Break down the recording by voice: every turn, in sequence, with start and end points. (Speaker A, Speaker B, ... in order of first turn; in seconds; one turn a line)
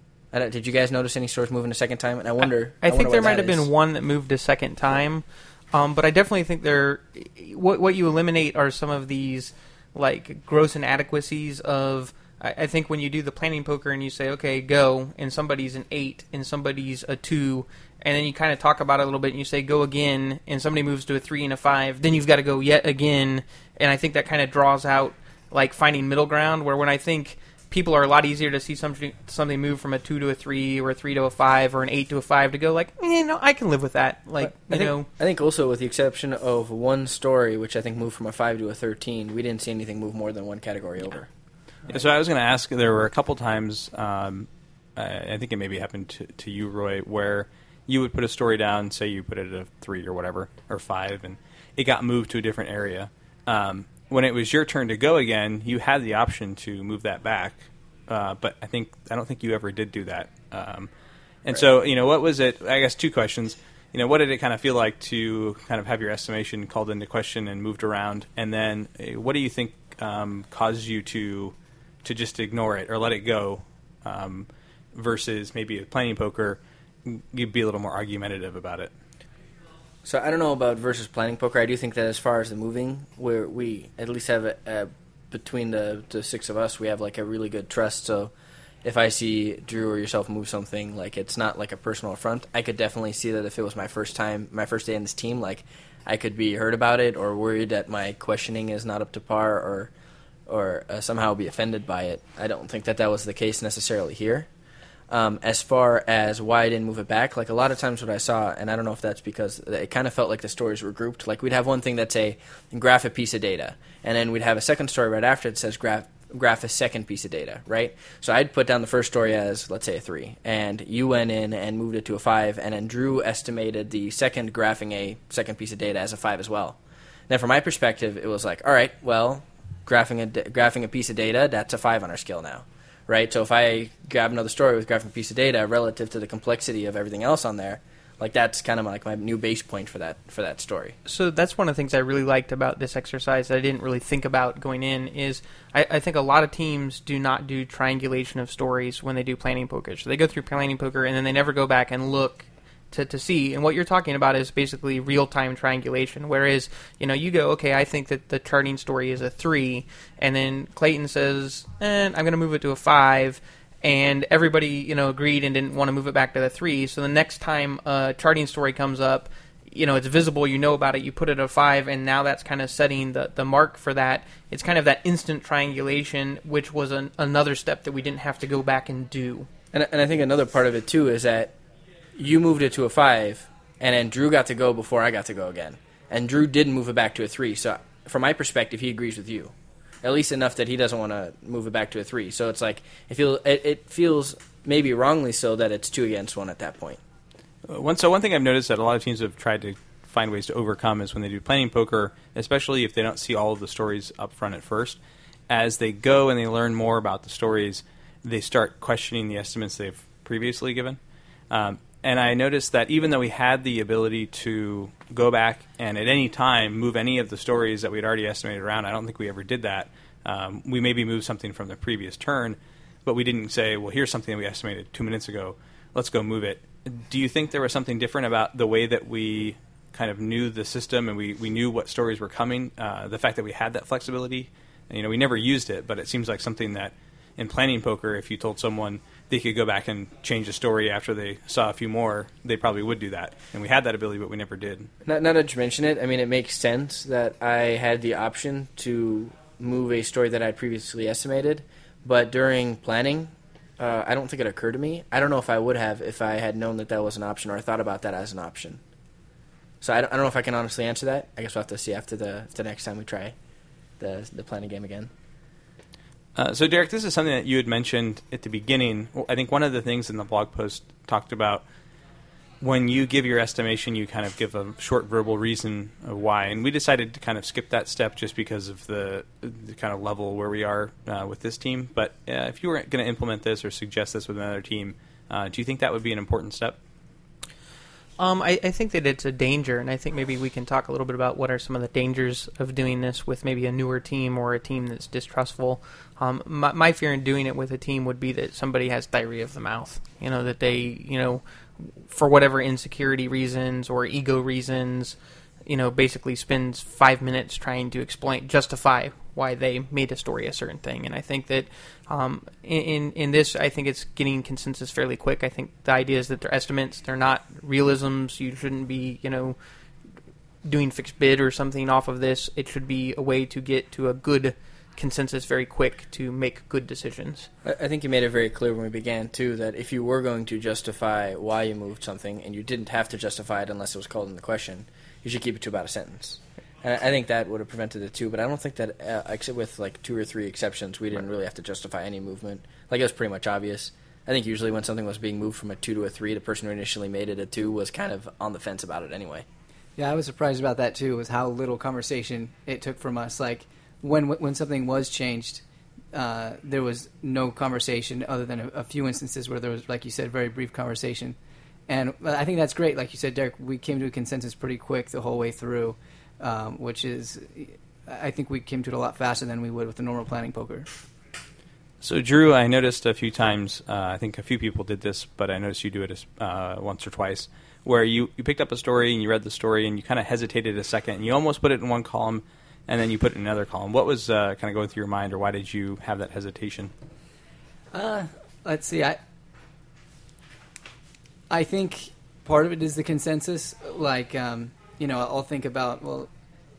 Speaker A: 0.3-3.7
Speaker B: 2.8-35.1
Speaker A: 34.4-41.3
Speaker C: 41.9-60.9
Speaker C: 61.5-78.9
Speaker A: 80.0-88.3
Speaker A: 88.8-99.9
Speaker A: 100.5-104.5
Speaker A: 105.1-126.8
Speaker A: 127.3-141.0
Speaker B: 141.1-179.5
Speaker A: 179.7-181.6
Speaker A: 182.2-197.0
Speaker C: 197.7-211.0
Speaker C: 211.5-244.9
Speaker A: 245.1-258.8
Speaker A: 259.8-263.3
Speaker A: 264.0-265.1
Speaker C: 266.3-271.6
Speaker C: 272.6-286.8
Speaker B: 288.2-319.6
Speaker B: 320.6-327.5
Speaker A: 327.6-349.4
Speaker D: 350.0-361.4
Speaker D: 361.9-370.9
Speaker C: 372.0-386.9
Speaker D: 387.9-389.2
Speaker D: 391.5-396.3